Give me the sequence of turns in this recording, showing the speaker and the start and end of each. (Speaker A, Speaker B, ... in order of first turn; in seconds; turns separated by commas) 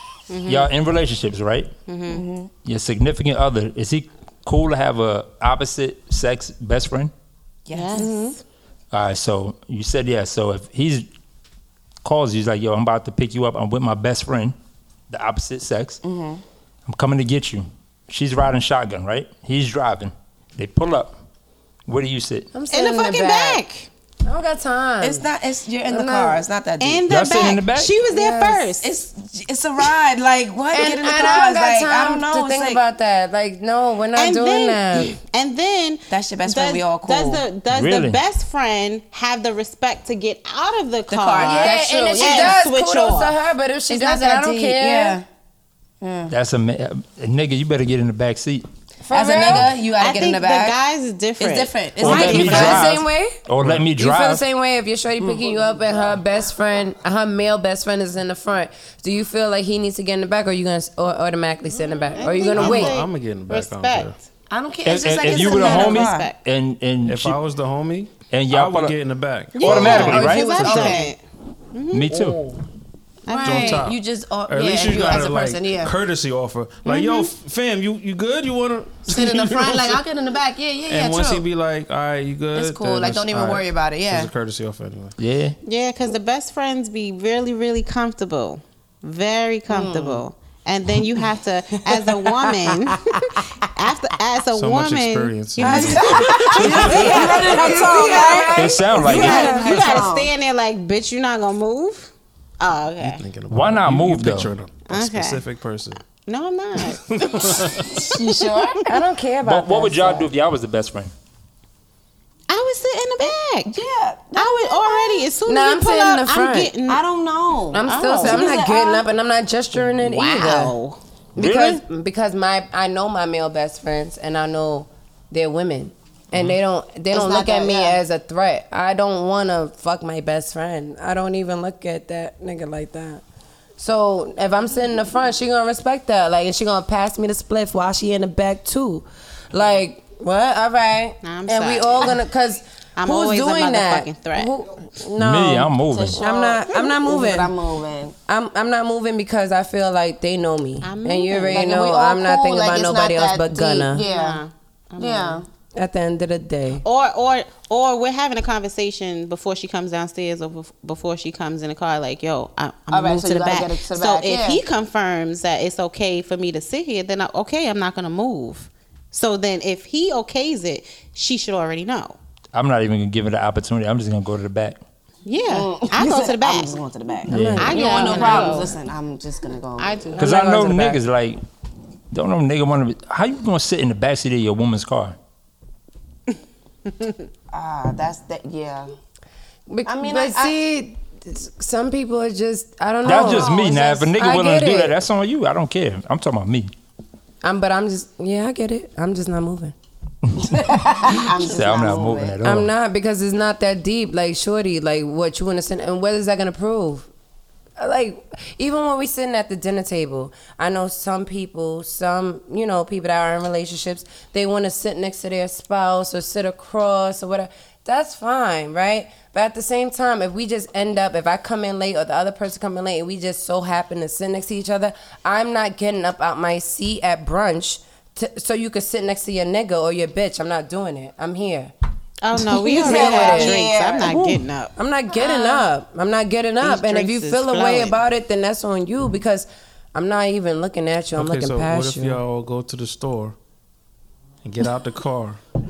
Speaker A: 0.3-0.7, Speaker B: 0.5-1.7, Speaker A: 1.9-2.2, Speaker C: 2.1-2.5, Speaker B: 2.6-7.1, Speaker C: 7.7-8.3, Speaker A: 7.7-8.4, Speaker B: 8.9-11.1, Speaker B: 12.0-14.5, Speaker B: 15.1-16.0, Speaker C: 16.0-16.4, Speaker B: 16.9-21.1, Speaker B: 21.9-22.5, Speaker D: 22.5-23.6, Speaker A: 22.7-23.9, Speaker D: 24.2-25.3, Speaker C: 25.0-27.0, Speaker D: 25.9-26.4, Speaker A: 26.8-28.9, Speaker B: 27.1-27.9, Speaker D: 28.1-28.7, Speaker C: 28.8-32.8, Speaker D: 30.7-35.2, Speaker A: 34.1-43.3, Speaker C: 36.1-37.4, Speaker B: 37.7-38.2, Speaker C: 41.1-42.6, Speaker D: 41.4-45.2, Speaker C: 43.9-45.2, Speaker C: 46.0-46.3, Speaker B: 46.3-48.6, Speaker D: 49.0-49.8, Speaker C: 49.1-50.8, Speaker A: 50.0-52.2, Speaker C: 51.4-52.9, Speaker B: 52.0-54.4, Speaker D: 52.0-53.4, Speaker E: 52.3-52.8, Speaker D: 53.9-63.0, Speaker A: 62.1-64.2, Speaker E: 62.5-64.2, Speaker C: 64.5-66.3, Speaker B: 64.8-67.4, Speaker A: 65.0-66.3, Speaker E: 67.0-70.1, Speaker B: 68.3-69.0, Speaker B: 69.5-71.1, Speaker C: 69.5-71.1, Speaker A: 69.6-71.2, Speaker A: 71.7-72.1, Speaker B: 71.9-72.4, Speaker C: 72.1-72.5, Speaker A: 73.2-73.9, Speaker C: 73.3-75.9, Speaker E: 73.4-80.0, Speaker A: 76.8-77.3, Speaker C: 79.1-81.4, Speaker E: 80.9-85.2, Speaker C: 82.5-84.3, Speaker B: 85.2-85.5, Speaker A: 85.6-98.4, Speaker C: 89.7-90.2, Speaker E: 94.5-97.1, Speaker D: 95.6-100.1, Speaker C: 95.6-100.3, Speaker B: 98.5-99.6, Speaker A: 99.1-103.2, Speaker E: 103.0-106.0, Speaker B: 103.5-104.5, Speaker A: 104.9-105.4, Speaker A: 106.2-108.8, Speaker E: 106.9-108.0, Speaker C: 107.9-108.8, Speaker D: 108.8-110.3, Speaker B: 109.4-111.1, Speaker A: 112.5-113.8, Speaker C: 113.2-115.3, Speaker A: 114.3-117.0, Speaker D: 115.5-116.7, Speaker C: 116.9-119.1, Speaker D: 117.7-120.7, Speaker A: 117.8-118.6, Speaker A: 120.0-121.0, Speaker B: 121.3-121.8, Speaker D: 121.3-133.2, Speaker C: 127.1-128.0, Speaker D: 133.8-147.5, Speaker A: 141.2-142.2, Speaker A: 142.9-144.5, Speaker B: 145.2-146.2, Speaker C: 145.9-148.1, Speaker D: 148.3-154.0, Speaker A: 150.8-151.6, Speaker C: 151.5-154.4, Speaker A: 154.0-155.4, Speaker C: 155.0-155.4, Speaker D: 155.7-156.8, Speaker A: 156.8-172.2, Speaker C: 162.9-164.6, Speaker B: 172.5-174.8, Speaker A: 175.2-176.8, Speaker C: 175.5-180.2, Speaker D: 177.3-178.7, Speaker B: 177.3-177.7, Speaker A: 177.6-178.8, Speaker A: 179.8-180.4, Speaker D: 180.1-181.0, Speaker B: 180.2-181.4, Speaker B: 182.1-185.2, Speaker C: 187.5-188.9, Speaker D: 189.7-195.0, Speaker C: 189.8-190.5, Speaker B: 193.0-196.7, Speaker A: 193.3-193.6, Speaker D: 197.4-199.7, Speaker B: 200.2-202.7, Speaker C: 200.5-202.3, Speaker D: 202.4-207.1, Speaker D: 207.8-231.7, Speaker A: 232.2-235.6, Speaker D: 232.6-233.6, Speaker C: 232.6-234.2, Speaker B: 234.0-234.4, Speaker D: 234.8-242.2, Speaker A: 236.6-237.9, Speaker E: 241.1-243.3, Speaker E: 244.4-245.4